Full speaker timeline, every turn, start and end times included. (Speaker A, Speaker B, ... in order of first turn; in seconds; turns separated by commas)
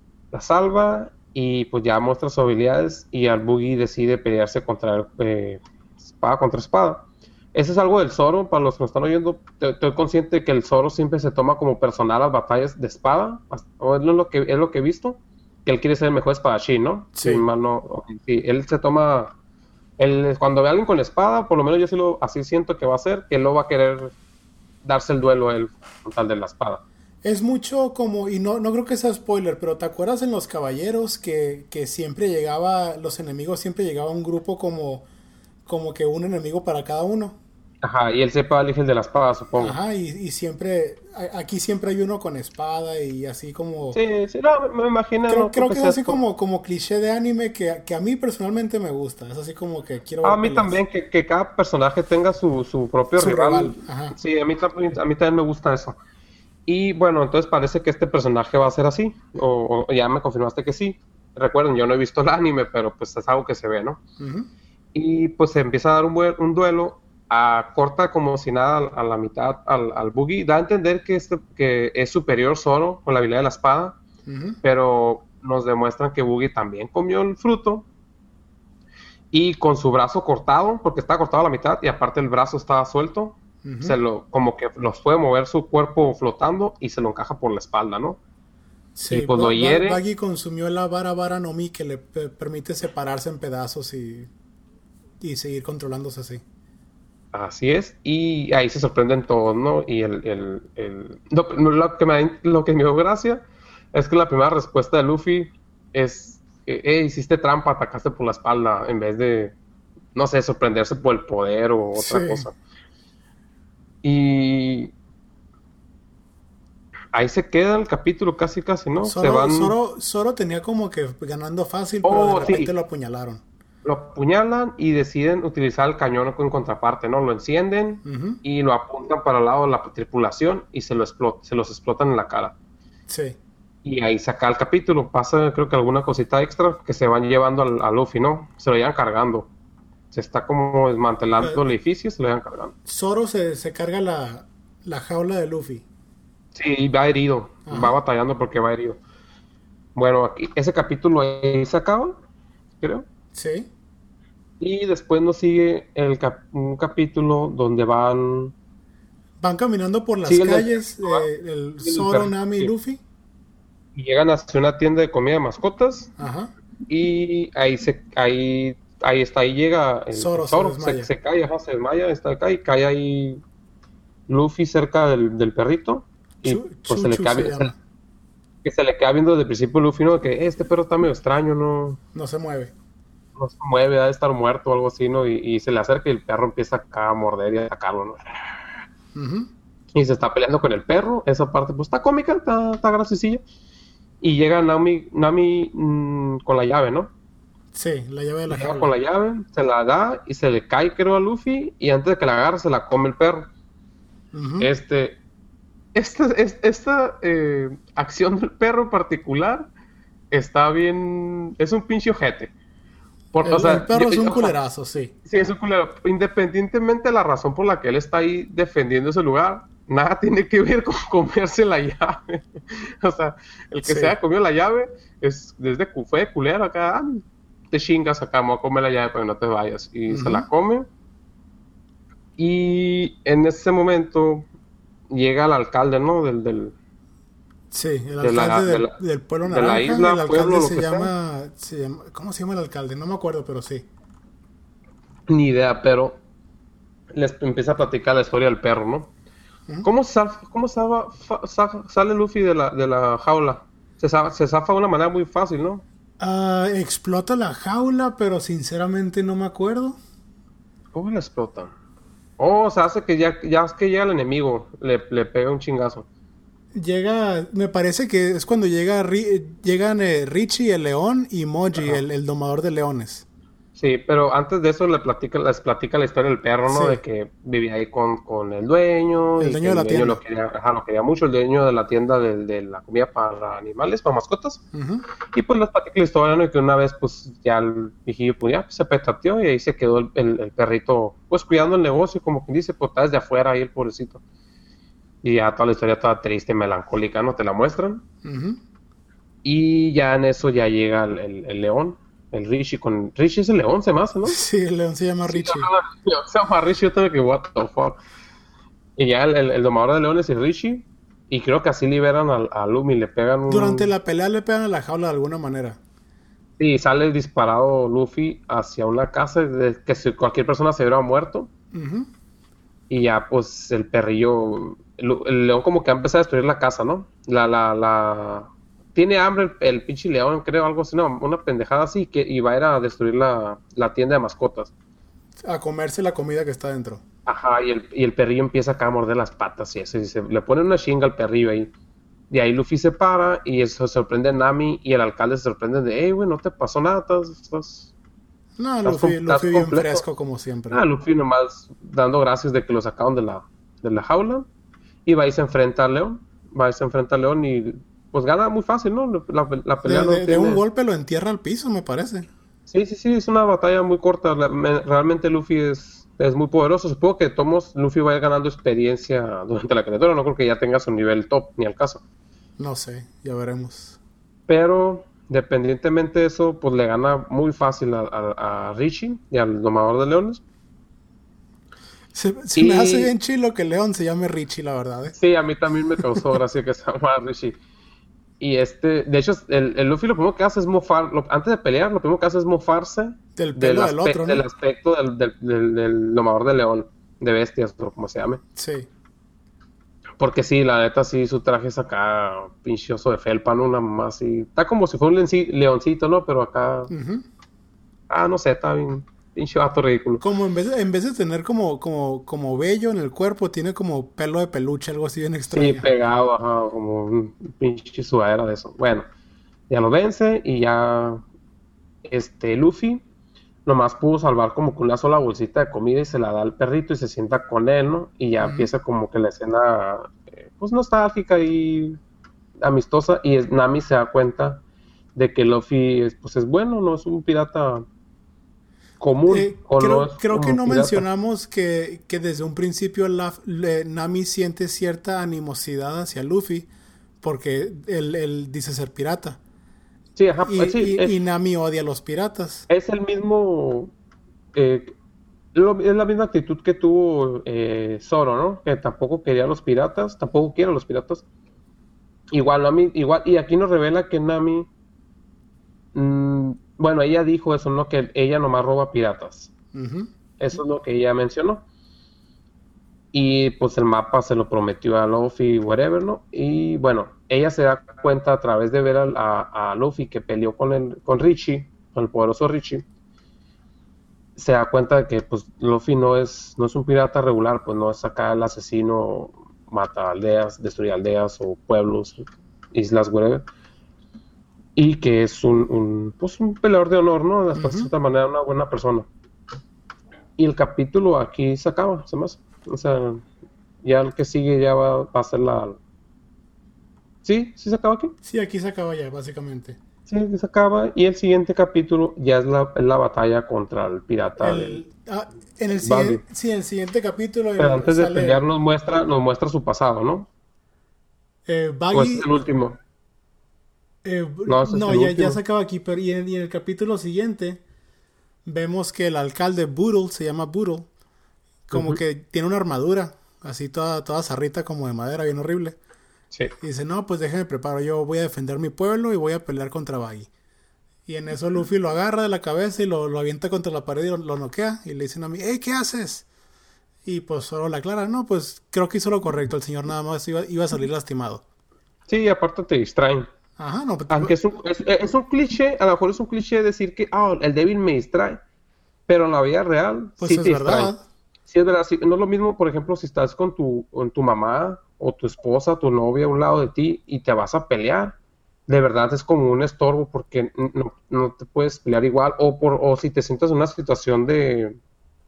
Speaker A: 0.3-19.3, Speaker B: 17.1-17.4, Speaker A: 20.0-24.1, Speaker A: 24.8-26.8, Speaker B: 27.2-35.0, Speaker B: 35.6-37.4, Speaker A: 37.8-39.8, Speaker B: 39.6-44.0, Speaker A: 43.9-46.2, Speaker B: 45.3-50.8, Speaker A: 50.2-56.0, Speaker B: 53.2-54.1, Speaker A: 56.6-64.0, Speaker B: 64.2-64.5, Speaker A: 64.9-74.0, Speaker B: 74.2-74.6, Speaker A: 74.6-77.8, Speaker A: 79.3-88.2, Speaker B: 83.6-84.0, Speaker B: 88.9-94.3, Speaker A: 89.1-90.0, Speaker B: 95.2-96.4, Speaker A: 97.3-109.5, Speaker A: 110.1-112.5, Speaker B: 111.9-112.5, Speaker A: 114.0-114.9, Speaker A: 117.1-119.7, Speaker B: 119.0-123.4, Speaker A: 122.0-122.7, Speaker A: 123.8-132.5, Speaker B: 128.0-128.4, Speaker B: 133.1-133.4, Speaker A: 133.8-139.5, Speaker A: 140.1-142.7, Speaker B: 142.8-145.8, Speaker A: 146.5-149.0, Speaker B: 147.7-148.0, Speaker A: 149.9-152.2, Speaker A: 152.8-153.1, Speaker B: 153.3-153.7, Speaker A: 154.6-158.5, Speaker B: 159.4-163.0, Speaker A: 160.2-161.3, Speaker A: 161.8-162.7, Speaker A: 163.9-166.1, Speaker B: 166.2-166.5, Speaker A: 166.9-173.4, Speaker B: 170.1-171.1, Speaker A: 174.3-177.7, Speaker B: 176.4-177.8, Speaker A: 178.6-182.0, Speaker B: 182.1-182.7, Speaker A: 183.4-188.5, Speaker B: 189.1-189.5, Speaker A: 189.9-193.4, Speaker A: 194.2-197.1, Speaker B: 197.7-198.9, Speaker A: 198.5-203.5, Speaker B: 204.3-204.7, Speaker A: 204.6-205.2, Speaker A: 205.9-209.7, Speaker A: 210.3-212.5, Speaker A: 213.3-214.5, Speaker B: 213.4-215.1, Speaker A: 215.2-230.9, Speaker B: 223.8-224.2, Speaker B: 230.1-230.5, Speaker A: 232.4-234.5, Speaker A: 235.1-236.7, Speaker B: 237.7-243.9, Speaker A: 238.2-241.1, Speaker A: 245.3-246.2, Speaker A: 247.1-249.1, Speaker A: 249.8-255.8, Speaker B: 256.2-260.0, Speaker A: 260.9-261.7, Speaker A: 262.4-266.1, Speaker B: 266.7-273.2, Speaker A: 271.7-272.0, Speaker A: 273.8-284.6, Speaker B: 276.7-277.0, Speaker B: 279.4-280.2, Speaker B: 284.7-285.0, Speaker A: 285.3-294.2, Speaker A: 295.2-298.0, Speaker B: 298.2-298.6, Speaker A: 299.4-304.4, Speaker B: 304.2-305.7, Speaker A: 305.3-308.0, Speaker A: 309.0-313.9, Speaker B: 313.5-315.8, Speaker A: 316.6-321.5, Speaker B: 321.7-322.1, Speaker A: 322.9-334.7, Speaker B: 335.4-337.0, Speaker A: 337.2-341.7, Speaker A: 342.3-347.9, Speaker B: 348.6-350.8, Speaker A: 348.8-350.0, Speaker A: 350.7-354.5, Speaker A: 355.0-360.6, Speaker B: 359.8-362.3, Speaker A: 362.7-372.0, Speaker B: 372.6-374.0, Speaker A: 374.5-380.4, Speaker B: 382.1-385.2, Speaker A: 382.6-383.1, Speaker A: 385.1-387.6, Speaker B: 386.0-386.3, Speaker A: 388.4-398.4, Speaker B: 393.4-394.4, Speaker B: 398.6-398.9, Speaker A: 400.2-406.9, Speaker B: 406.9-407.2, Speaker A: 408.1-410.2, Speaker B: 410.2-415.9, Speaker A: 415.5-419.1, Speaker A: 419.7-421.2, Speaker A: 422.0-423.0, Speaker A: 423.6-432.0, Speaker B: 428.4-428.7, Speaker A: 432.6-434.6, Speaker A: 435.1-437.8, Speaker A: 439.0-441.0, Speaker B: 439.3-446.7, Speaker B: 447.2-449.4, Speaker A: 450.1-451.1, Speaker B: 450.5-452.6, Speaker A: 452.7-453.9, Speaker A: 454.5-454.9, Speaker A: 455.5-461.2, Speaker A: 462.3-464.7, Speaker A: 465.9-469.5, Speaker B: 469.7-470.6, Speaker A: 470.4-471.6, Speaker A: 473.1-482.8, Speaker A: 484.4-493.4, Speaker A: 494.8-499.1, Speaker B: 497.5-497.9, Speaker A: 500.4-503.2, Speaker A: 503.8-505.8, Speaker A: 507.2-508.1, Speaker B: 508.2-509.8, Speaker A: 510.1-514.8, Speaker B: 514.4-518.4, Speaker A: 515.8-516.2, Speaker A: 517.6-520.3, Speaker B: 521.5-522.3, Speaker A: 521.9-522.8, Speaker B: 524.0-527.6, Speaker A: 524.5-525.4, Speaker B: 528.4-530.9, Speaker B: 531.7-535.8, Speaker B: 536.6-540.3, Speaker B: 541.0-546.2, Speaker B: 547.0-551.4, Speaker A: 552.1-553.3, Speaker B: 553.6-554.3, Speaker A: 554.1-558.4, Speaker A: 559.1-560.9, Speaker B: 560.2-561.0, Speaker A: 561.5-568.1, Speaker A: 568.7-574.8